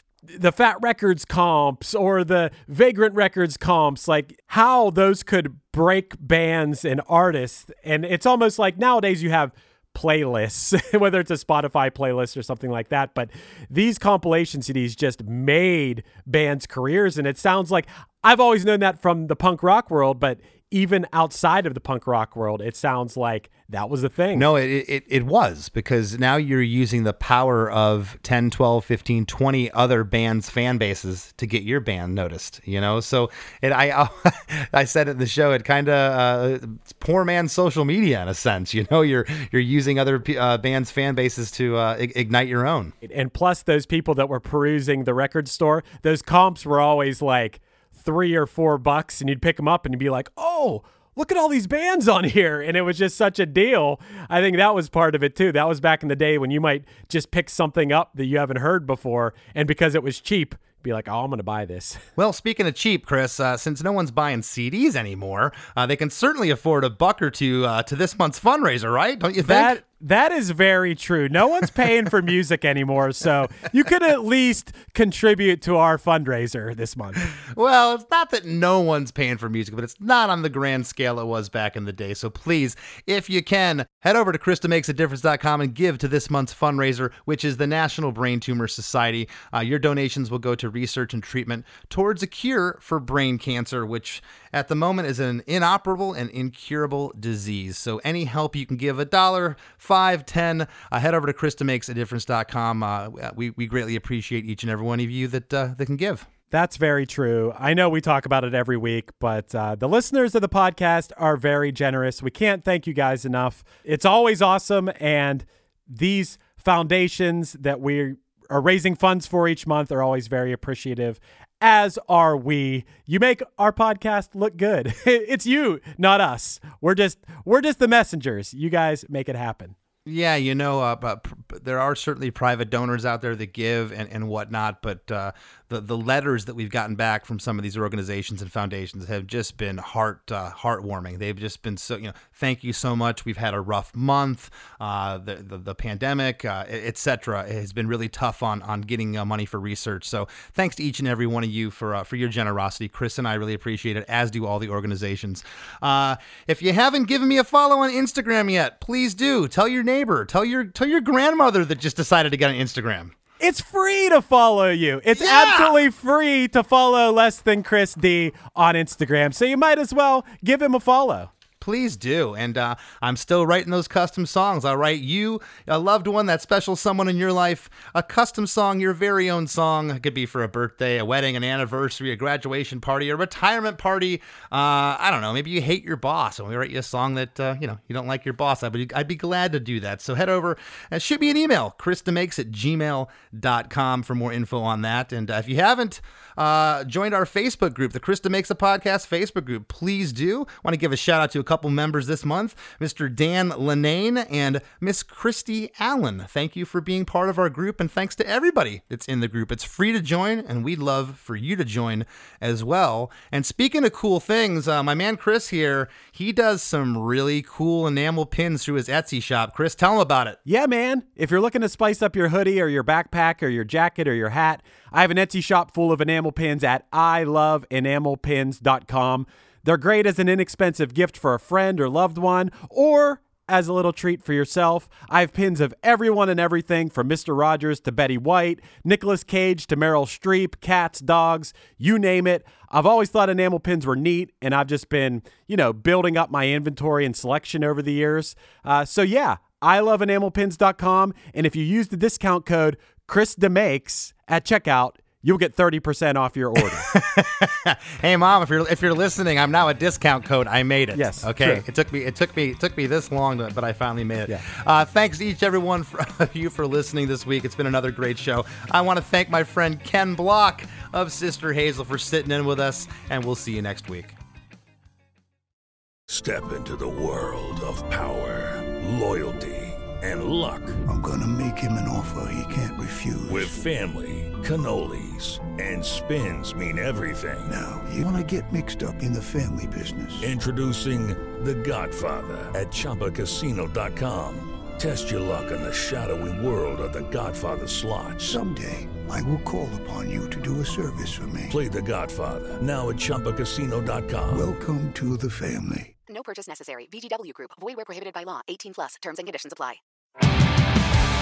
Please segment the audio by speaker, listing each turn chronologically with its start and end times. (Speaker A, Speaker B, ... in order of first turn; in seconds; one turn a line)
Speaker A: 0.3-24.5
Speaker B: 24.4-42.9
Speaker A: 43.0-62.0
Speaker B: 62.2-69.8
Speaker A: 69.4-77.3
Speaker B: 77.4-106.3
Speaker A: 106.5-129.8
Speaker B: 130.1-163.2
Speaker A: 163.4-171.3
Speaker B: 165.2-165.8
Speaker B: 171.6-220.4
Speaker A: 220.5-256.9
Speaker B: 256.8-274.1
Speaker A: 260.9-261.6
Speaker C: 276.1-280.8
Speaker D: 280.9-283.6
Speaker C: 283.3-287.6
Speaker D: 287.5-290.3
Speaker C: 290.2-298.4
Speaker D: 298.2-301.6
Speaker C: 301.5-304.5
Speaker D: 304.3-305.9
Speaker E: 306.1-309.8